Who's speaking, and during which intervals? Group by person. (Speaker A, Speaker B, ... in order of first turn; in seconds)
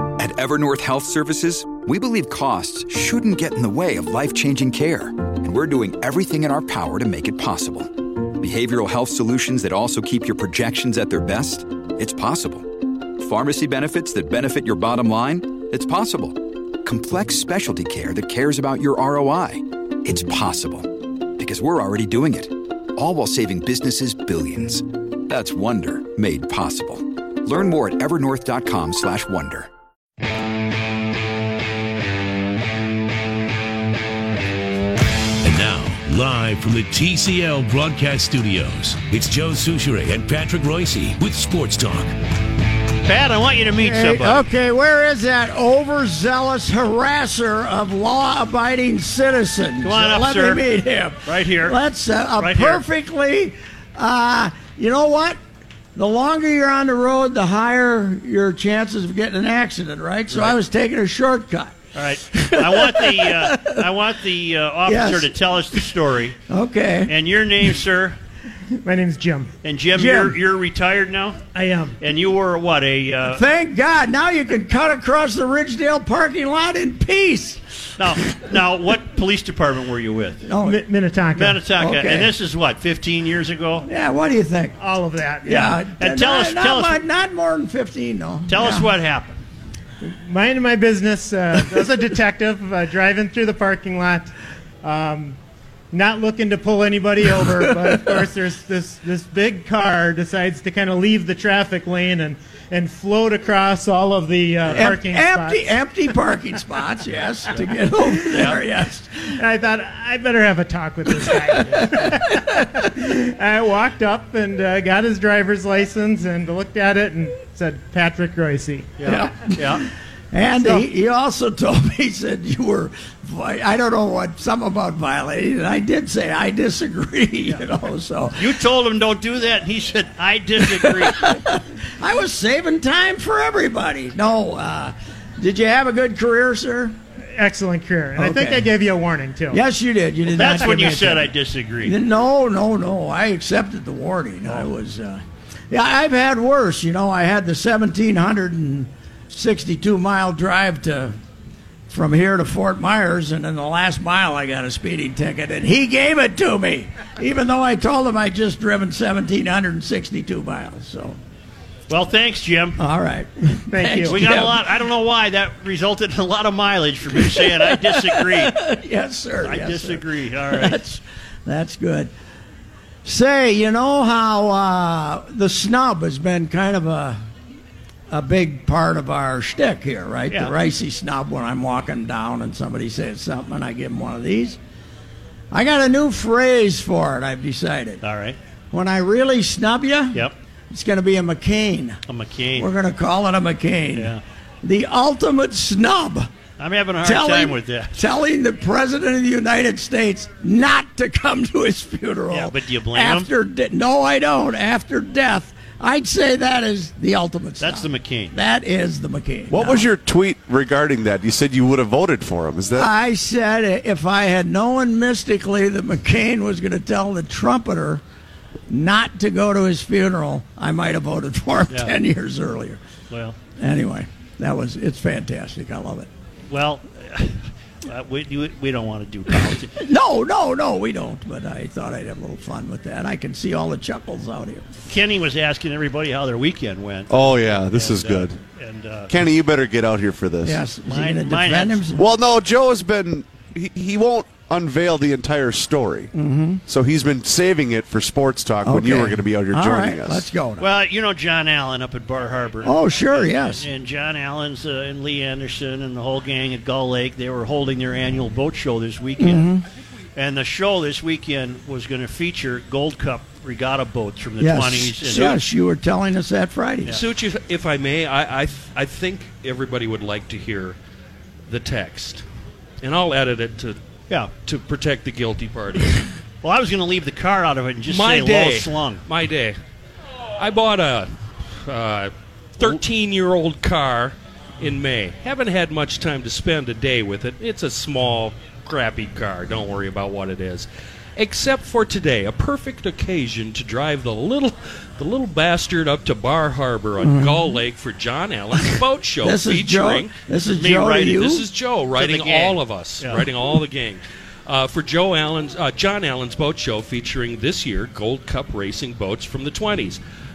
Speaker A: 0.1-29.7
Speaker B: 35.4-42.1
Speaker C: 43.0-44.4, 49.8-50.6, 51.2-51.8, 52.4-52.8, 60.3-60.6, 61.9-66.4, 67.1-68.2, 69.6-71.4, 72.0-73.4, 78.0-80.5, 81.3-83.9, 86.0-87.0, 88.5-89.4, 108.3-108.6, 119.0-119.8, 128.3-131.3, 140.3-141.9, 161.9-162.8, 164.1-168.5, 169.4-170.8, 180.3-180.5, 188.0-188.4, 192.1-192.7, 193.9-194.2, 196.6-198.0, 202.3-203.3, 207.6-208.3, 221.7-221.9, 223.1-223.4, 226.5-229.8, 234.9-239.1, 240.9-241.8, 250.6-259.5, 260.1-265.4, 276.4-279.0, 300.5-301.4, 301.9-303.2
Speaker D: 43.8-55.4, 55.9-61.8, 62.3-63.9, 64.8-65.4, 66.5-67.1, 69.9-70.4, 73.3-77.6, 80.4-80.8, 81.8-82.3, 83.8-84.8, 85.4-88.9, 104.7-109.3, 112.0-112.5, 119.0-128.6, 130.7-137.0, 138.2-138.7, 139.5-151.2, 151.9-161.2, 162.8-164.6, 167.2-172.1, 173.0-177.2, 178.1-184.6, 185.5-188.0, 188.7-192.0, 192.6-196.3, 197.0-209.8, 212.7-218.0, 218.7-222.8, 223.6-226.1, 229.8-234.7, 240.4-242.0, 246.1-246.6, 248.6-250.7, 252.6-253.7, 259.2-259.6, 264.4-267.0, 297.0-297.5, 299.2-301.4
Speaker E: 68.8-69.5, 71.5-72.0, 80.6-81.6, 84.8-85.8, 90.0-95.4, 95.9-105.7, 109.3-119.1, 120.6-120.9, 137.3-139.6, 163.7-164.3
Speaker F: 209.5-212.9, 237.1-238.4, 239.1-240.6, 241.9-246.1, 246.7-250.2
Speaker G: 266.9-270.8, 271.5-272.2, 272.8-273.8, 274.3-276.0, 277.9-279.6, 280.4-290.6, 291.2-300.1, 301.1-310.0